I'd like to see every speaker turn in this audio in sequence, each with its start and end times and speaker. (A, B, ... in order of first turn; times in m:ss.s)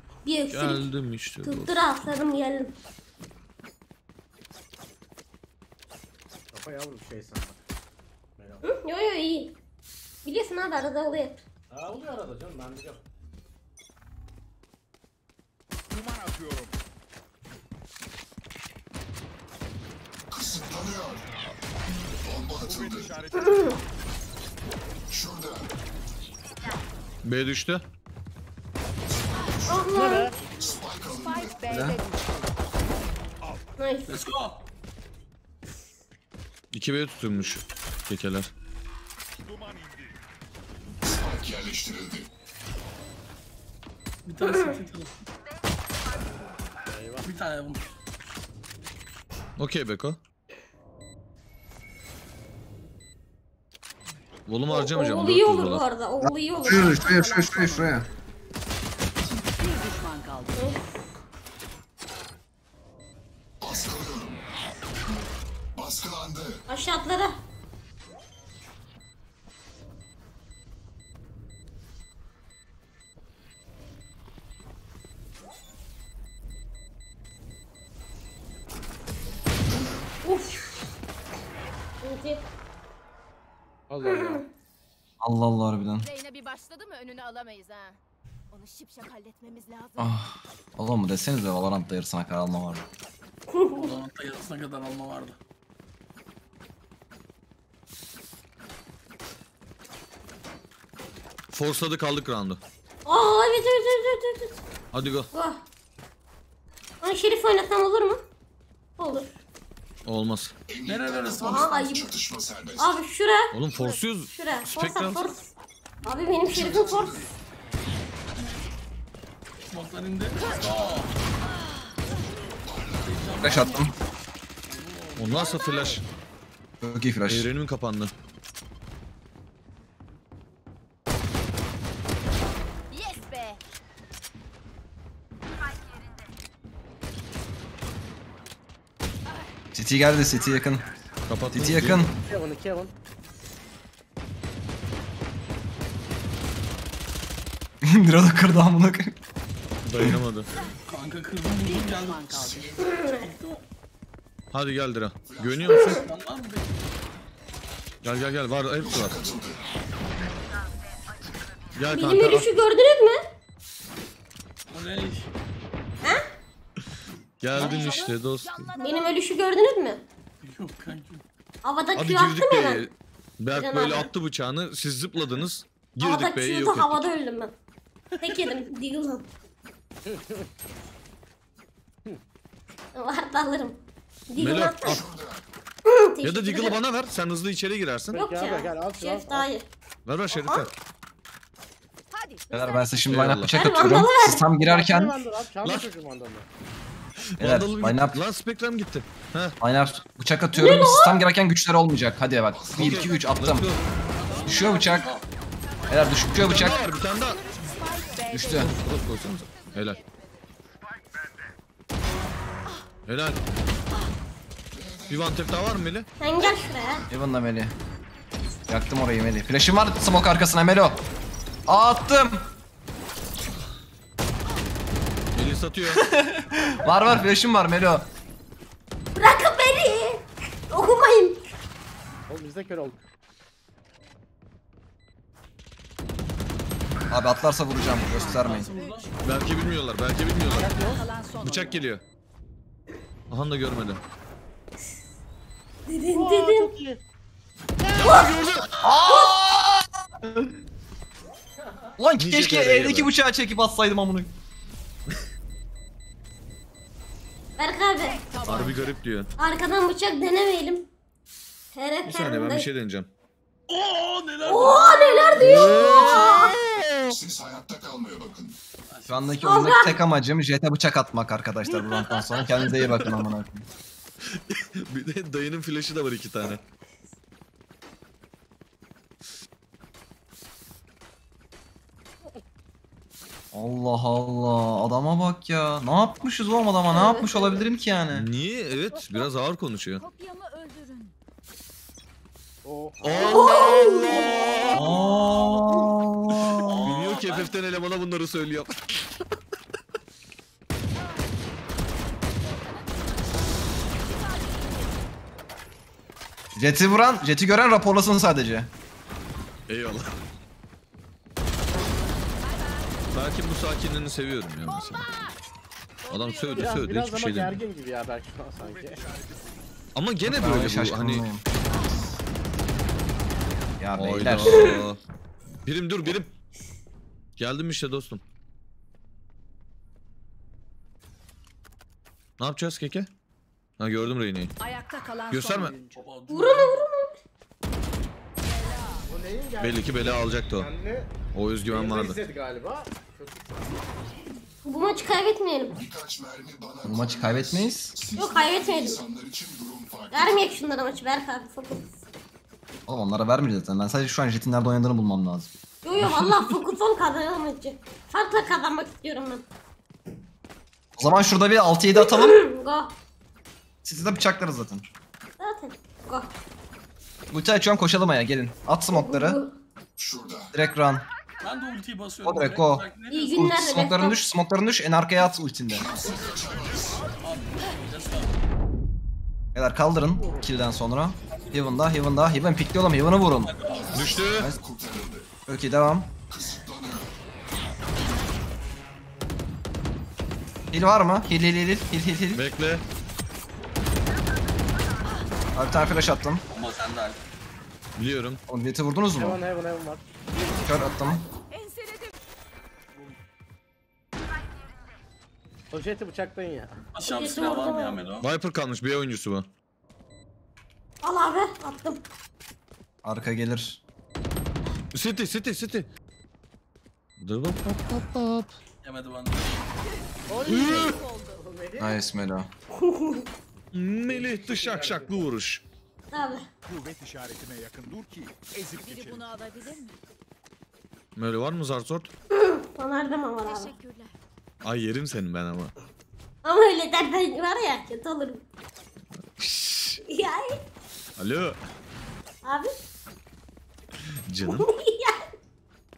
0:00.3-0:00.9 A
0:00.5-0:01.7 B
0:01.4-0:02.7 A
0:06.5-0:07.6 C
0:08.4-0:08.6 C
0:08.6-0:09.6 A
0:10.2-0:11.4 A
0:11.7-0:13.0 C
0:15.9-0:16.8 D
0:20.3-0:21.2 E
0:22.2-0:23.1 E
0:22.6-0:23.8 D
0:25.1-0:25.7 E
0:27.2-0:27.8 B
0:29.1-0:31.8 E
0:29.7-0:30.3 A
0:29.9-0:30.4 C
0:31.2-0:32.5 F
0:31.7-0:32.0 G
0:33.4-0:33.7 D
0:33.8-0:34.1 A
0:34.1-0:34.6 H
0:36.7-0:38.5 B
0:39.4-0:40.2 D
0:41.0-0:42.3 E
0:44.2-0:45.2 H
0:46.9-0:47.3 C
0:47.2-0:47.8 H
0:49.6-0:50.2 B
0:54.5-0:55.8 B
0:54.7-0:57.0 A
0:56.2-0:58.1 G
0:56.7-0:58.0 F
0:59.6-1:00.7 F
1:00.6-1:00.8 A
1:03.6-1:04.4 E
1:05.8-1:06.6 E
1:06.7-1:07.4 A
1:20.2-1:20.8 A
1:22.0-1:22.4 A
1:23.9-1:24.4 C
1:24.0-1:24.4 A
1:25.2-1:26.1 G
1:26.0-1:28.0 I
1:28.5-1:30.2 I
1:30.0-1:32.8 G
1:33.5-1:33.9 A
1:33.8-1:35.4 H
1:41.5-1:42.6 B
1:43.1-1:44.6 A
1:44.9-1:45.3 B
1:45.3-1:45.6 A
1:47.0-1:48.2 A
1:49.0-1:49.3 A
1:50.0-1:50.5 B
1:50.7-1:53.0 E
1:50.9-1:51.8 H
1:51.4-1:52.1 A
1:52.8-1:53.5 A
1:53.5-1:55.4 B
1:54.3-1:55.5 A
1:56.0-1:57.2 A
1:56.3-1:57.3 E
1:59.7-2:01.1 H
2:01.5-2:02.0 I
2:02.6-2:03.6 E
2:03.0-2:04.0 H
2:03.4-2:03.9 G
2:04.6-2:06.0 H
2:05.2-2:06.0 B
2:06.8-2:07.5 G
2:07.3-2:08.1 B
2:12.9-2:13.6 I
2:19.7-2:20.8 G
2:21.3-2:22.1 B
2:21.5-2:22.2 G
2:22.2-2:22.9 C
2:27.8-2:29.2 G
2:29.8-2:30.5 B
2:30.9-2:32.3 H
2:31.6-2:32.8 F
2:32.1-2:33.1 E
2:32.8-2:33.3 A
2:33.0-2:33.6 H
2:34.5-2:36.0 B
2:35.2-2:35.8 E
2:35.8-2:36.7 H
2:38.0-2:39.2 B
2:38.8-2:39.6 E
2:41.8-2:42.5 B
2:41.9-2:43.2 A
2:44.7-2:45.3 H
2:47.4-2:48.7 B
2:47.6-2:48.1 H
2:47.6-2:49.2 I
2:48.8-2:50.0 A
2:50.4-2:51.2 H
2:51.6-2:52.9 A
2:52.0-2:57.1 B
2:53.5-2:54.1 A
2:56.0-2:57.5 A
2:58.2-2:59.3 A
3:00.1-3:00.5 C
3:03.0-3:05.0 A
3:04.4-3:05.0 B
3:04.8-3:05.4 E
3:05.9-3:06.8 A
3:06.2-3:08.2 B
3:08.1-3:09.5 C
3:08.1-3:09.7 A
3:10.1-3:10.7 B
3:12.1-3:13.2 I
3:12.5-3:15.1 G
3:13.1-3:13.5 B
3:13.5-3:14.5 A
3:14.6-3:16.5 C
3:15.6-3:15.9 B
3:17.3-3:19.6 B
3:17.4-3:18.2 G
3:19.6-3:23.7 G
3:20.5-3:21.3 A
3:22.5-3:23.2 E
3:22.8-3:23.8 B
3:24.1-3:25.2 H
3:24.4-3:25.1 G
3:25.7-3:28.3 I
3:25.9-3:26.8 G
3:26.3-3:27.4 B
3:27.7-3:28.7 F
3:28.3-3:28.7 G
3:28.6-3:30.0 B
3:29.0-3:30.5 I
3:33.1-3:33.4 B
3:34.7-3:35.7 E
3:35.1-3:36.1 B
3:36.2-3:37.0 A
3:37.1-3:37.8 G
3:38.7-3:41.0 G
3:41.7-3:42.5 G
3:45.3-3:46.0 B
3:45.9-3:48.1 G
3:49.2-3:51.4 A
3:52.3-3:53.0 C
3:57.1-3:58.7 G
3:57.9-3:59.1 H
3:58.0-3:59.5 F
3:59.2-4:00.9 B
4:00.5-4:01.1 C
4:00.5-4:01.8 F
4:01.4-4:02.0 B
4:03.3-4:04.0 B
4:05.9-4:06.7 A
4:06.2-4:07.0 C
4:08.0-4:08.8 B
4:08.0-4:08.3 A
4:08.8-4:10.5 G
4:09.1-4:09.3 A
4:12.0-4:14.3 G
4:12.2-4:13.1 B
4:17.6-4:18.2 A
4:18.1-4:19.0 F
4:18.4-4:19.3 B
4:19.4-4:20.9 A
4:21.7-4:22.7 A
4:22.0-4:23.1 B
4:23.7-4:26.3 H
4:24.4-4:26.6 A
4:25.4-4:27.2 B
4:27.1-4:28.6 E
4:28.9-4:29.4 H
4:29.1-4:33.7 G
4:29.4-4:30.0 A
4:34.3-4:36.6 B
4:43.5-4:48.3 G
4:46.9-4:47.6 A
4:48.1-4:50.0 B
4:50.0-4:51.2 I
4:52.6-4:53.3 C
4:53.0-4:55.2 B
4:53.2-4:54.1 A
4:53.8-4:55.0 H
4:54.7-4:56.8 G
4:56.4-4:59.2 B
4:56.6-4:57.5 H
5:01.0-5:01.4 I
5:02.4-5:05.0 I
5:06.6-5:08.7 G
5:09.7-5:10.1 B
5:12.3-5:13.2 I
5:13.1-5:15.3 B
5:14.6-5:15.4 I
5:16.0-5:16.8 I
5:16.1-5:17.6 B
5:16.6-5:19.0 C
5:18.6-5:19.6 D
5:20.0-5:21.3 B
5:20.3-5:21.4 G
5:21.7-5:22.0 I
5:23.8-5:24.8 G
5:24.0-5:25.0 B
5:25.6-5:26.4 B
5:27.4-5:28.2 B
5:32.4-5:33.1 B
5:33.8-5:34.5 B
5:34.6-5:36.0 F
5:35.3-5:35.8 B
5:35.9-5:36.8 H
5:36.3-5:37.2 A
5:38.4-5:39.1 I
5:39.1-5:41.1 C
5:39.6-5:40.7 B
5:41.3-5:42.2 B
5:41.7-5:43.8 C
5:44.6-5:45.8 A
5:45.8-5:50.5 E
5:46.8-5:48.0 G
5:48.2-5:49.0 A
5:50.1-5:52.0 A
5:52.9-5:55.5 G
5:55.8-5:59.4 A
6:01.0-6:02.4 G
6:02.0-6:03.0 A
6:03.8-6:04.8 G
6:05.4-6:06.4 A
6:07.3-6:09.4 G
6:08.9-6:09.6 A
6:10.0-6:10.6 E
6:10.5-6:11.1 G
6:11.4-6:13.3 H
6:12.2-6:15.9 G
6:13.1-6:14.2 A
6:15.7-6:17.1 E
6:16.2-6:17.1 D
6:17.2-6:18.4 H
6:19.6-6:23.5 G
6:23.4-6:24.2 H
6:23.6-6:25.3 E
6:23.9-6:24.5 B
6:24.3-6:24.6 G
6:25.5-6:26.1 G
6:26.3-6:27.1 E
6:30.7-6:32.4 G
6:32.4-6:32.8 B
6:35.5-6:36.4 G
6:36.5-6:37.2 H
6:38.0-6:38.4 B
6:38.5-6:39.4 G
6:39.2-6:40.0 C
6:40.6-6:41.3 G
6:41.5-6:42.2 I
6:45.7-6:46.8 C
6:46.9-6:48.3 H
6:47.0-6:48.0 A
6:48.2-6:49.5 B
6:51.0-6:52.0 A
6:53.0-6:53.8 G
6:54.9-6:55.9 B
6:57.2-6:58.5 B
6:58.8-6:59.6 H
7:00.3-7:02.0 C
7:00.4-7:01.4 I
7:00.5-7:00.9 B
7:01.8-7:02.5 G
7:02.8-7:03.3 A
7:03.7-7:05.6 B
7:04.1-7:05.3 C
7:06.1-7:06.5 A
7:06.6-7:09.4 D
7:08.8-7:10.0 I
7:11.2-7:12.1 B
7:12.3-7:13.7 A
7:13.4-7:14.2 I
7:14.6-7:15.7 B
7:16.4-7:18.4 A
7:19.2-7:20.0 B
7:20.0-7:20.6 A
7:21.2-7:21.6 B
7:22.4-7:22.7 A
7:24.3-7:24.7 B
7:24.4-7:25.2 A